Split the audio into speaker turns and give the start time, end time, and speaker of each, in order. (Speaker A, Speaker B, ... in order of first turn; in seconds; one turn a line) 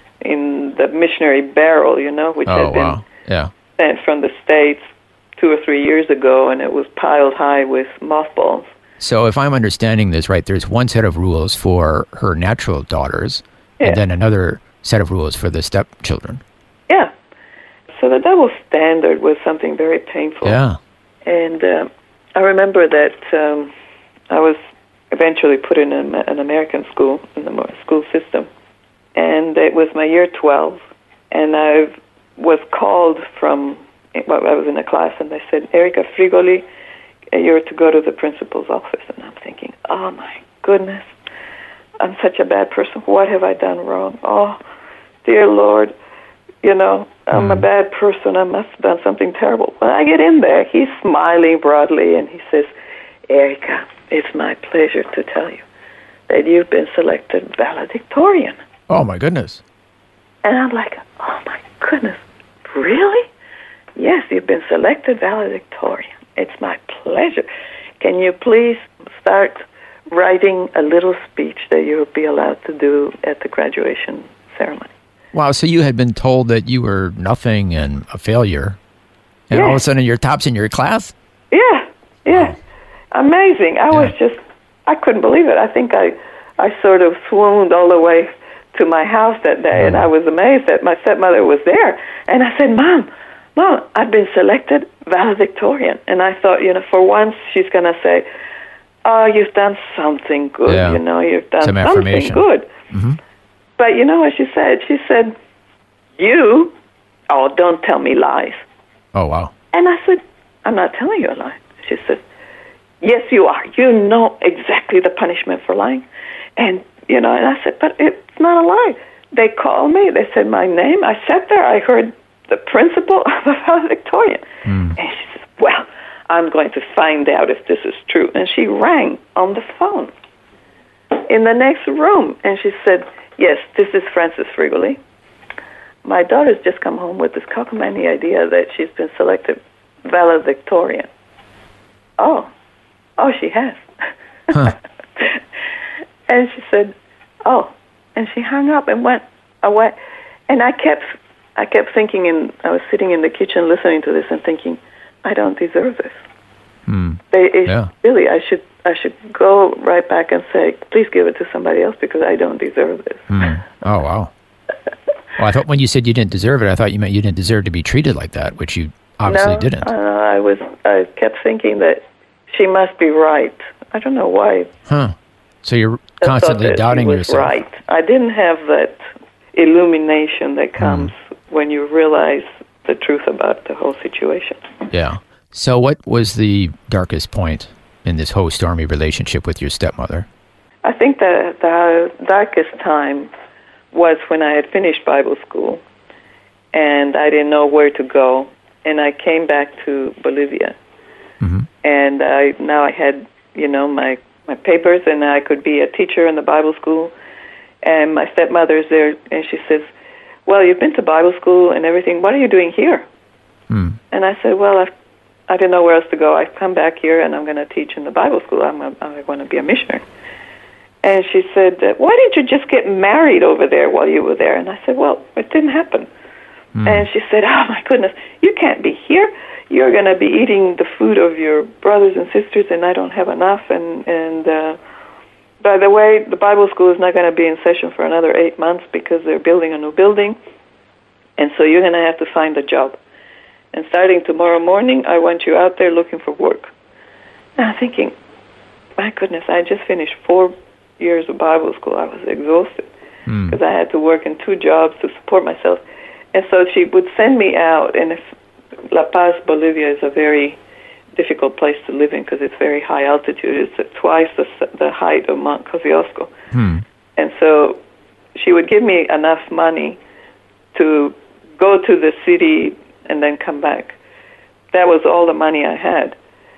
Speaker A: 0.2-3.0
Speaker B: 2.5-3.5
Speaker A: 3.8-8.7
Speaker B: 9.0-16.4
Speaker A: 17.9-20.6
Speaker B: 20.4-20.8
Speaker A: 21.2-23.7
Speaker A: 24.3-24.6
Speaker A: 25.1-28.5
Speaker A: 29.1-36.6
Speaker A: 37.3-41.1
Speaker A: 42.0-44.6
Speaker A: 45.2-45.9
Speaker A: 46.6-52.7
Speaker B: 47.3-47.6
Speaker A: 53.3-55.6
Speaker A: 56.3-58.5
Speaker B: 58.9-59.6
Speaker A: 60.4-63.3
Speaker A: 64.0-67.5
Speaker A: 68.0-74.9
Speaker B: 75.3-78.8
Speaker B: 79.5-81.1
Speaker A: 79.5-79.8
Speaker A: 81.5-82.5
Speaker A: 83.1-98.2
Speaker B: 89.8-90.0
Speaker A: 99.0-102.7
Speaker B: 100.7-101.0
Speaker B: 101.6-103.2
Speaker A: 103.8-105.3
Speaker A: 106.2-106.7
Speaker A: 107.3-108.6
Speaker B: 109.1-109.5
Speaker A: 109.7-112.2
Speaker A: 113.0-116.0
Speaker A: 116.6-130.1
Speaker B: 124.7-125.0
Speaker A: 131.1-135.0
Speaker A: 136.0-141.1
Speaker A: 142.2-142.5
Speaker A: 143.2-143.8
Speaker A: 144.5-145.4
Speaker A: 146.3-146.9
Speaker A: 147.4-149.9
Speaker A: 150.5-156.2
Speaker B: 156.9-157.9
Speaker A: 157.3-163.4
Speaker B: 163.3-164.3
Speaker B: 165.4-169.9
Speaker A: 169.2-174.7
Speaker B: 174.9-177.6
Speaker A: 176.2-179.0
Speaker A: 179.5-184.6
Speaker B: 180.8-181.1
Speaker B: 184.9-190.3
Speaker A: 190.8-193.3
Speaker A: 193.9-195.8
Speaker A: 196.7-200.8
Speaker B: 201.4-201.7
Speaker A: 201.8-207.1
Speaker A: 207.8-209.9
Speaker A: 210.4-213.0
Speaker B: 213.7-214.0
Speaker A: 214.1-214.9
Speaker A: 215.5-220.0
Speaker A: 221.0-226.1
Speaker B: 226.8-227.1
Speaker A: 226.8-234.8
Speaker A: 235.6-240.4
Speaker A: 241.4-243.0
Speaker A: 243.7-246.7
Speaker A: 247.6-248.1
Speaker A: 249.0-252.9
Speaker B: 253.3-253.6
Speaker A: 253.5-255.8
Speaker A: 256.3-258.2
Speaker A: 258.9-260.6
Speaker A: 261.1-266.3
Speaker B: 266.5-266.8
Speaker A: 267.1-267.8
Speaker A: 268.4-270.0
Speaker A: 270.7-274.0
Speaker A: 274.7-276.1